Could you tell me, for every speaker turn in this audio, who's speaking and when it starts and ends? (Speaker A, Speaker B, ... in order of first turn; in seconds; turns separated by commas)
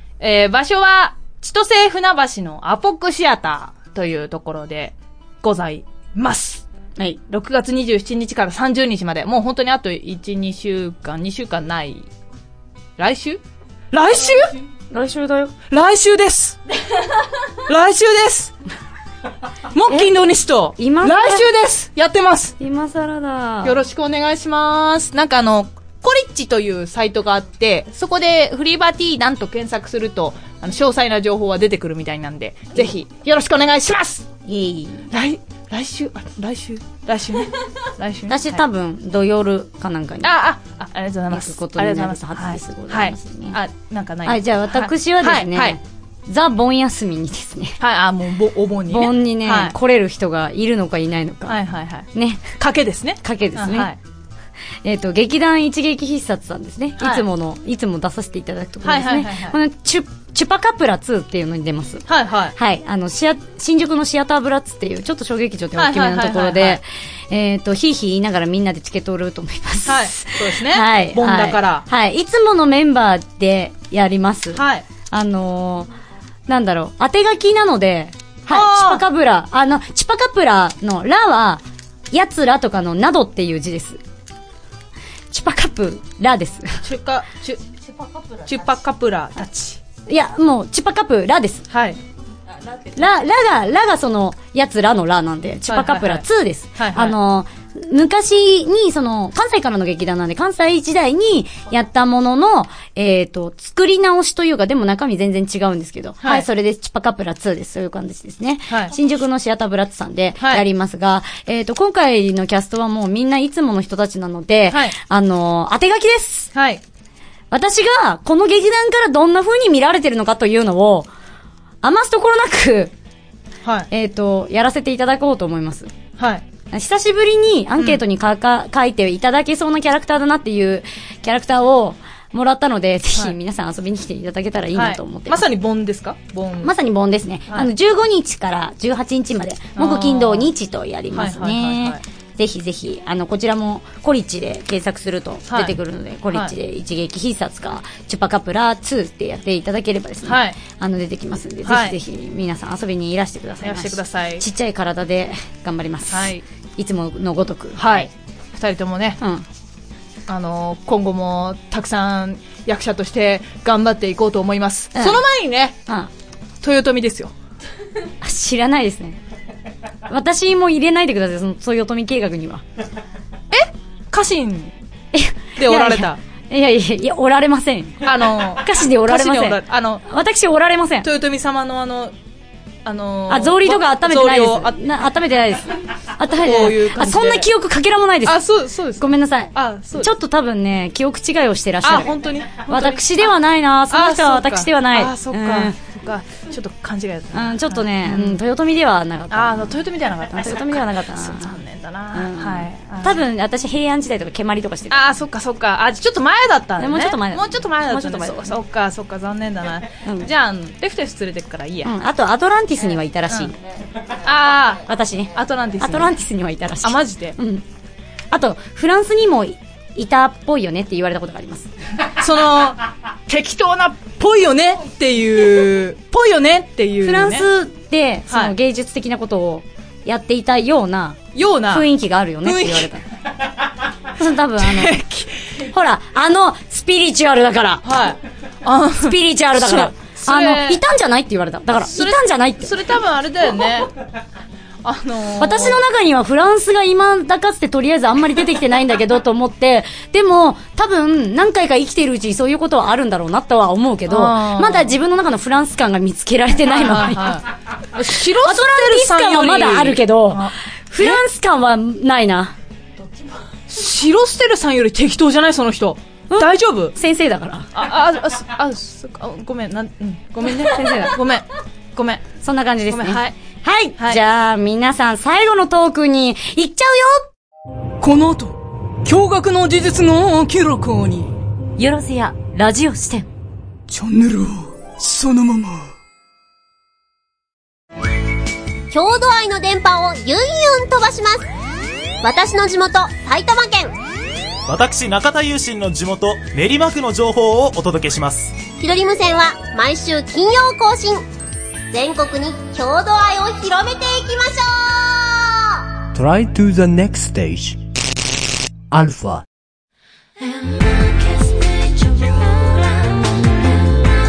Speaker A: 0.2-6.7, Speaker A: 7.3-12.1, Speaker A: 13.0-13.4, Speaker A: 13.9-14.6, Speaker B: 14.9-15.5, Speaker A: 15.7-16.6, Speaker A: 17.6-18.5, Speaker A: 19.7-22.6, Speaker B: 20.8-21.5, Speaker B: 22.6-23.8, Speaker A: 23.6-34.3, Speaker B: 34.5-35.1, Speaker A: 35.1-38.6, Speaker B: 38.3-40.3, Speaker A: 40.2-45.8, Speaker B: 41.3-43.6, Speaker B: 44.3-47.8, Speaker A: 47.8-49.7, Speaker B: 48.9-51.6, Speaker A: 51.5-54.0, Speaker B: 52.1-52.4, Speaker B: 53.2-53.9, Speaker B: 54.8-62.0, Speaker A: 57.0-57.2, Speaker A: 58.8-59.6, Speaker A: 62.1-62.5, Speaker B: 62.5-75.9, Speaker A: 65.8-66.8, Speaker A: 69.9-71.9, Speaker A: 74.5-74.8, Speaker B: 76.5-84.0, Speaker A: 78.5-79.0, Speaker B: 85.3-86.8, Speaker A: 86.8-87.6, Speaker A: 88.4-89.8, Speaker B: 90.1-91.7, Speaker A: 91.7-92.0, Speaker B: 93.0-116.5, Speaker A: 95.7-96.2, Speaker A: 96.8-97.2, Speaker A: 114.7-115.0, Speaker A: 116.5-116.8, Speaker B: 117.5-121.1, Speaker B: 121.8-122.9, Speaker B: 123.9-125.9, Speaker A: 126.2-126.4, Speaker B: 126.7-135.4, Speaker A: 134.8-136.7, Speaker B: 136.6-158.1, Speaker A: 139.8-140.5, Speaker A: 141.1-142.0, Speaker A: 145.5-145.7, Speaker A: 150.2-150.6, Speaker A: 151.7-152.0, Speaker A: 153.6-154.4, Speaker A: 156.1-156.4, Speaker A: 157.8-159.2, Speaker B: 159.2-159.5, Speaker A: 160.3-165.8, Speaker B: 164.9-165.2, Speaker A: 166.6-167.3, Speaker B: 168.2-169.2, Speaker B: 170.1-172.6, Speaker A: 173.5-174.7, Speaker B: 175.1-181.1, Speaker A: 175.6-176.2, Speaker A: 178.0-180.0, Speaker A: 181.0-182.1, Speaker A: 182.8-184.7, Speaker B: 183.3-188.4, Speaker A: 186.4-187.5, Speaker A: 188.3-190.1, Speaker B: 189.0-192.1, Speaker A: 191.8-193.3, Speaker B: 192.7-195.8, Speaker A: 193.9-198.4, Speaker B: 197.3-199.7, Speaker A: 199.3-203.2, Speaker B: 200.3-201.5, Speaker B: 202.1-205.1, Speaker A: 204.9-211.9, Speaker B: 206.8-208.5, Speaker B: 210.1-210.3, Speaker B: 211.8-213.5, Speaker A: 214.2-214.8, Speaker B: 214.9-217.6, Speaker A: 215.3-216.1, Speaker A: 216.8-217.4, Speaker B: 218.3-221.7, Speaker A: 222.2-227.5, Speaker B: 227.0-233.0, Speaker A: 228.3-228.6, Speaker A: 231.3-231.9, Speaker A: 232.4-232.9, Speaker B: 234.2-235.0, Speaker A: 234.6-235.3, Speaker B: 235.6-237.9, Speaker A: 237.8-240.8, Speaker B: 239.0-242.7, Speaker A: 241.9-243.9, Speaker A: 244.8-245.8, Speaker B: 245.4-257.4, Speaker A: 254.1-254.9, Speaker A: 256.7-261.2, Speaker B: 258.4-262.5, Speaker A: 263.7-266.9, Speaker B: 266.3-267.7, Speaker A: 267.8-272.2, Speaker B: 270.7-271.1, Speaker B: 272.4-277.2, Speaker A: 272.9-273.4, Speaker A: 278.0-281.3, Speaker B: 281.8-283.3, Speaker A: 283.9-285.9, Speaker C: 288.9-291.5, Speaker C: 292.2-293.9, Speaker D: 294.7-298.6, Speaker C: 298.8-301.2, Speaker C: 301.9-305.7, Speaker E: 306.1-307.8, Speaker E: 308.9-309.4